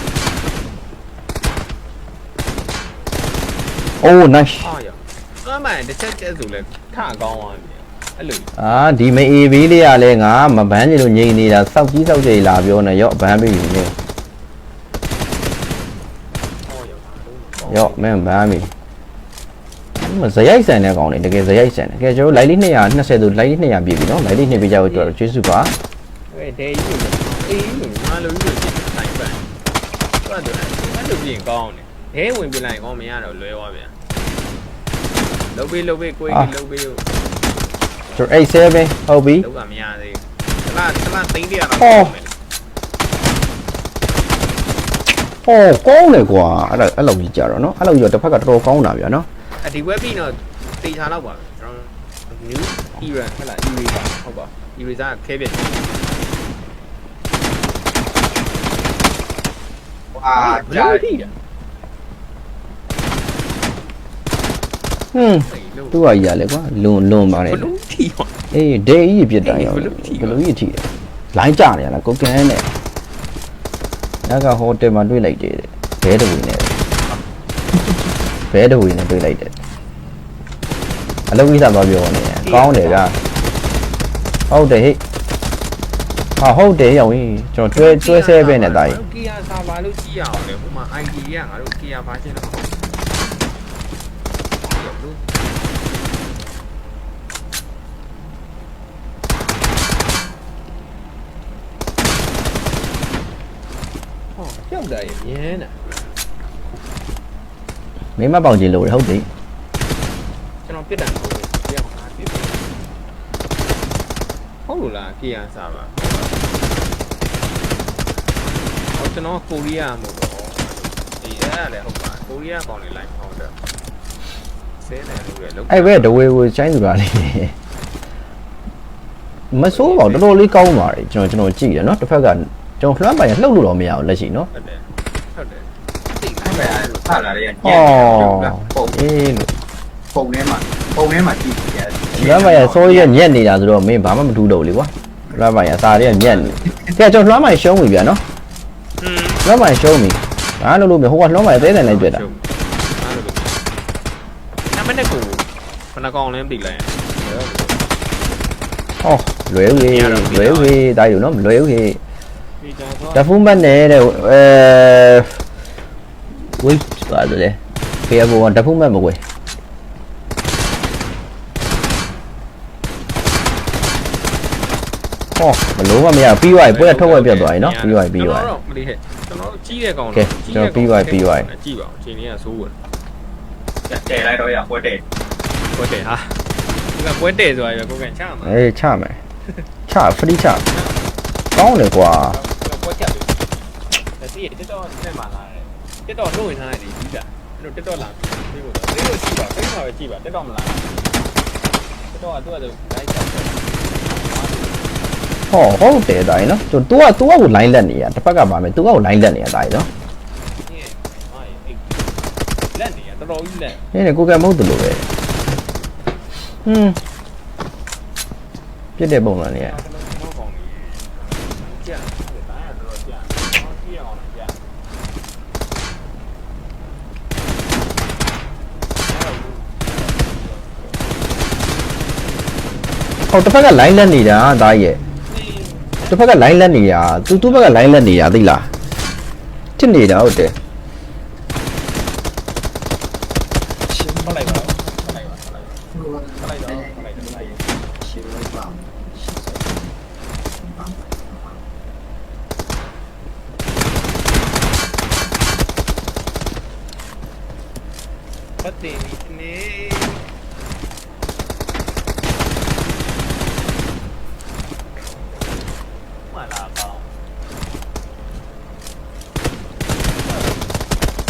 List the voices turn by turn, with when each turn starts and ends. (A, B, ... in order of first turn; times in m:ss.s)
0:04.0-0:04.7 A
0:04.6-0:08.5 B
0:08.6-0:13.9 A
0:16.6-0:18.2 B
0:17.7-0:18.7 A
0:20.0-0:25.7 A
0:24.4-0:25.1 B
0:26.3-0:29.5 B
0:30.2-0:33.9 B
0:35.5-0:37.2 B
0:38.1-0:39.5 A
0:39.4-0:42.3 B
0:41.8-0:42.1 A
0:45.4-0:49.3 A
0:49.6-0:56.0 B
1:00.2-1:01.0 C
1:00.3-1:01.3 B
1:05.1-1:07.7 A
1:05.4-1:06.0 B
1:07.3-1:08.3 B
1:08.5-1:12.7 A
1:09.4-1:10.4 B
1:14.2-1:16.7 A
1:18.5-1:19.5 A
1:21.3-1:23.2 A
1:22.4-1:23.2 B
1:24.5-1:25.0 A
1:26.4-1:29.0 A
1:27.7-1:32.8 B
1:34.6-1:35.2 B
1:44.4-1:45.9 B
1:48.2-1:49.3 A
1:50.6-1:52.6 B
1:54.6-1:56.5 B
1:58.9-2:03.6 B
2:04.8-2:06.2 B
2:05.7-2:07.5 A
2:09.5-2:14.5 A
2:09.7-2:10.4 B
2:14.5-2:18.4 B
2:16.4-2:18.9 C
2:17.6-2:19.5 A
2:20.1-2:23.1 C
2:22.1-2:28.2 A
2:26.1-2:26.8 B
2:29.0-2:29.4 B
2:29.4-2:32.2 A
2:31.5-2:33.6 B
2:34.7-2:37.9 B
2:39.0-2:42.0 A
2:39.7-2:40.8 B
2:42.6-2:43.8 B
2:43.1-2:45.4 A
2:46.3-2:49.2 A
2:55.4-2:58.5 A
2:56.6-3:02.8 B
3:00.1-3:01.5 A
3:03.9-3:05.0 C
3:05.7-3:08.6 B
3:08.4-3:09.2 A
3:09.9-3:10.6 A
3:10.6-3:11.0 B
3:11.5-3:12.4 A
3:12.2-3:13.6 B
3:14.1-3:21.1 B
3:22.1-3:25.1 B
3:25.5-3:29.9 A
3:30.6-3:32.1 B
3:32.7-3:33.8 B
3:33.9-3:35.1 A
3:36.6-3:37.0 A
3:39.0-3:39.8 A
3:39.5-3:44.6 B
3:49.0-3:51.5 B
3:53.3-3:55.0 A
3:55.2-3:58.0 B
3:56.0-3:58.7 A
3:59.8-4:00.6 A
4:03.9-4:07.7 B
4:08.1-4:08.9 C
4:18.6-4:20.3 B
4:26.2-4:27.1 B
4:30.1-4:30.7 B